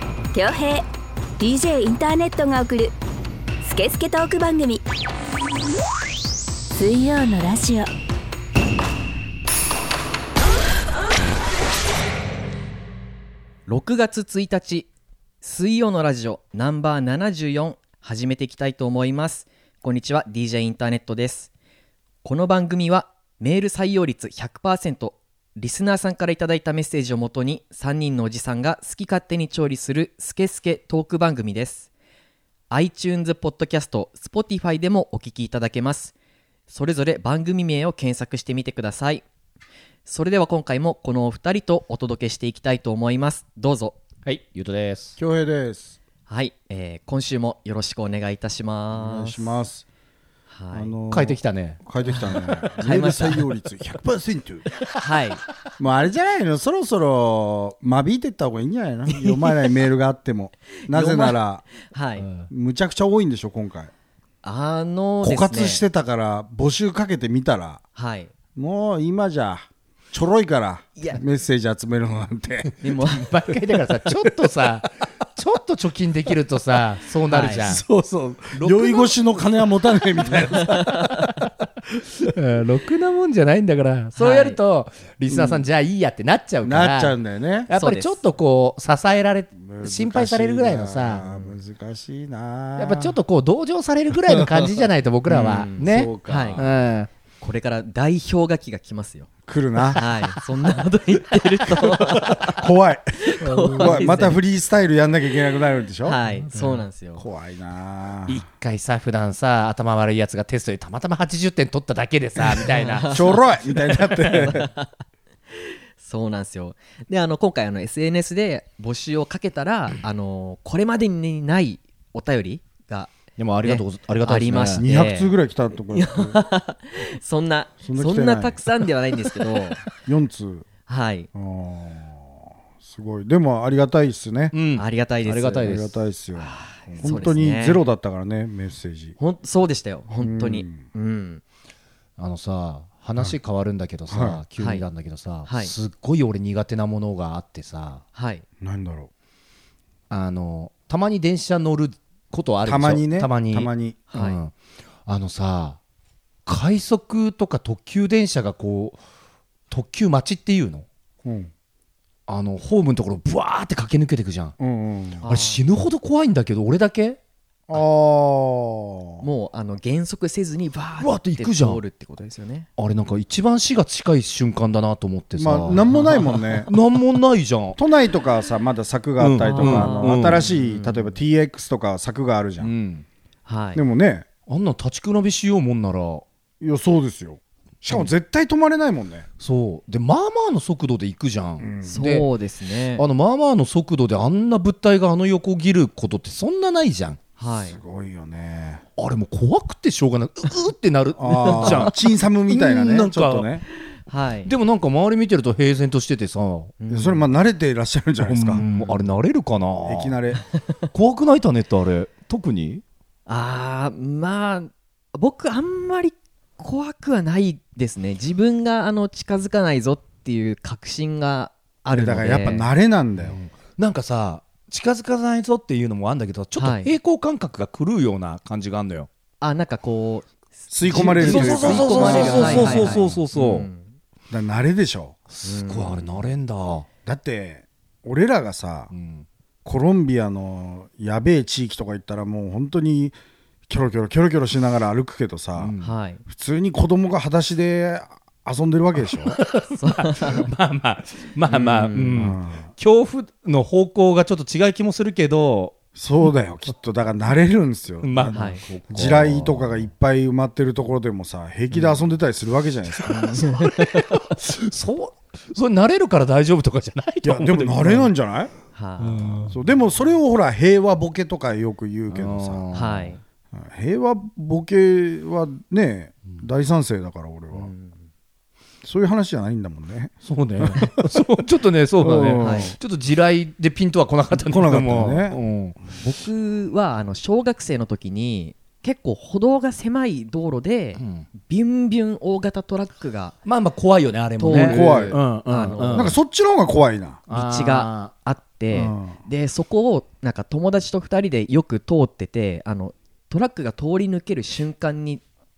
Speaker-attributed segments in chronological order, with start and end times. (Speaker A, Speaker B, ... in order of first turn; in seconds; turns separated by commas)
Speaker A: 0.3-0.8, Speaker A: 1.4-2.9, Speaker A: 3.6-4.8, Speaker A: 6.7-7.9, Speaker B: 13.7-14.9, Speaker B: 15.4-21.5, Speaker B: 22.2-31.9, Speaker B: 32.7-36.1, Speaker B: 36.7-39.2, Speaker B: 40.0-44.0, Speaker C: 44.2-45.2, Speaker D: 45.2-46.0, Speaker B: 46.3-49.5, Speaker D: 48.9-49.9, Speaker B: 50.5-50.9, Speaker D: 50.7-54.7, Speaker C: 51.1-51.8, Speaker B: 52.8-53.5, Speaker B: 55.0-55.4, Speaker D: 55.8-61.7, Speaker B: 59.1-59.5, Speaker B: 60.9-62.3, Speaker C: 62.2-62.5, Speaker D: 62.5-63.9, Speaker B: 64.4-65.8, Speaker D: 65.2-67.8, Speaker B: 68.0-68.3, Speaker D: 68.5-72.8, Speaker B: 72.8-73.2, Speaker C: 73.0-77.8, Speaker B: 77.3-77.7, Speaker D: 77.6-80.9, Speaker C: 78.5-79.2, Speaker C: 80.3-81.1, Speaker B: 80.8-81.1, Speaker C: 82.2-87.1, Speaker B: 84.1-84.6, Speaker D: 85.3-85.6, Speaker D: 86.6-87.7, Speaker C: 87.7-91.2, Speaker B: 87.7-88.2, Speaker D: 89.6-93.2, Speaker B: 91.2-91.5, Speaker C: 92.8-97.1, Speaker D: 94.3-94.6, Speaker D: 95.3-96.7, Speaker B: 95.3-96.6, Speaker B: 97.4-99.3, Speaker D: 99.5-100.0, Speaker B: 99.9-102.6, Speaker D: 101.9-106.2, Speaker B: 103.2-104.4, Speaker C: 103.4-104.2, Speaker B: 106.0-107.2, Speaker C: 106.3-106.8, Speaker D: 107.2-108.4, Speaker C: 108.3-113.2, Speaker B: 112.7-113.4, Speaker D: 113.1-114.7, Speaker B: 114.0-114.9, Speaker B: 116.0-125.3, Speaker C: 123.4-124.8, Speaker D: 124.8-126.4, Speaker B: 125.9-129.8, Speaker D: 127.8-128.6, Speaker D: 129.4-130.7, Speaker B: 130.8-131.3, Speaker D: 131.3-132.3, Speaker D: 132.8-134.5, Speaker C: 134.5-135.9, Speaker B: 134.8-135.7, Speaker D: 135.6-139.2, Speaker B: 136.4-137.8, Speaker B: 139.2-141.4, Speaker D: 140.2-140.8, Speaker C: 142.2-148.0, Speaker D: 144.1-144.4, Speaker B: 144.6-144.8, Speaker B: 145.4-145.7, Speaker B: 148.1-148.4, Speaker D: 148.6-149.1, Speaker C: 150.1-154.5, Speaker D: 152.6-154.1, Speaker B: 154.1-154.4, Speaker C: 155.1-155.8, Speaker C: 156.4-159.0, Speaker C: 159.7-160.8, Speaker D: 161.2-161.5, Speaker C: 162.3-164.5, Speaker D: 164.6-165.2, Speaker B: 165.2-165.6, Speaker C: 165.3-167.2, Speaker D: 167.7-169.2, Speaker B: 169.2-172.7, Speaker C: 171.0-171.8, Speaker C: 172.8-177.8, Speaker D: 175.3-176.7, Speaker D: 177.7-182.7, Speaker C: 179.2-180.5, Speaker B: 179.4-181.2, Speaker C: 182.6-183.1, Speaker B: 183.4-183.8, Speaker D: 183.7-184.2, Speaker C: 184.5-186.2, Speaker D: 186.6-189.3, Speaker C: 189.4-192.3, Speaker D: 191.6-192.0, Speaker B: 191.8-193.0, Speaker C: 192.9-197.2, Speaker B: 197.4-197.8, Speaker D: 197.7-198.8, Speaker C: 199.0-202.0, Speaker D: 201.2-203.6, Speaker C: 202.5-203.5, Speaker B: 204.1-204.5, Speaker C: 204.4-206.7, Speaker B: 206.8-207.2, Speaker D: 206.9-208.6, Speaker C: 208.2-210.2, Speaker B: 208.6-208.9, Speaker D: 209.8-210.4, Speaker C: 210.9-212.8, Speaker B: 213.3-222.7, Speaker D: 221.9-223.4, Speaker C: 223.2-229.1, Speaker B: 226.6-226.9, Speaker B: 229.4-230.3, Speaker D: 230.7-233.2, Speaker B: 230.8-233.9, Speaker C: 230.9-233.7, Speaker D: 234.3-235.2, Speaker C: 235.3-236.9, Speaker B: 235.4-236.1, Speaker D: 237.0-238.9, Speaker C: 238.9-239.2, Speaker D: 239.6-243.1, Speaker D: 243.7-245.7, Speaker C: 245.6-245.9, Speaker B: 245.8-246.2, Speaker D: 246.2-249.4, Speaker C: 249.1-255.8, Speaker B: 249.8-250.5, Speaker B: 251.5-252.2, Speaker D: 251.7-252.7, Speaker D: 255.9-263.5, Speaker C: 258.0-259.9, Speaker B: 258.3-258.6, Speaker B: 263.1-264.1, Speaker C: 263.2-268.1, Speaker D: 267.2-268.5, Speaker B: 268.7-269.3, Speaker C: 269.0-269.6, Speaker D: 269.4-272.6, Speaker C: 272.1-273.1, Speaker B: 272.7-273.2, Speaker D: 273.5-277.7, Speaker B: 277.5-277.9, Speaker D: 278.8-281.1, Speaker C: 280.2-285.8, Speaker D: 282.0-282.8, Speaker B: 282.4-282.7, Speaker D: 284.3-285.4, Speaker B: 286.0-293.3, Speaker C: 291.0-291.3, Speaker C: 293.4-296.1, Speaker B: 294.4-296.1, Speaker D: 294.4-295.2, Speaker D: 295.9-297.2, Speaker C: 297.3-298.1, Speaker B: 297.3-305.2, Speaker D: 298.7-299.2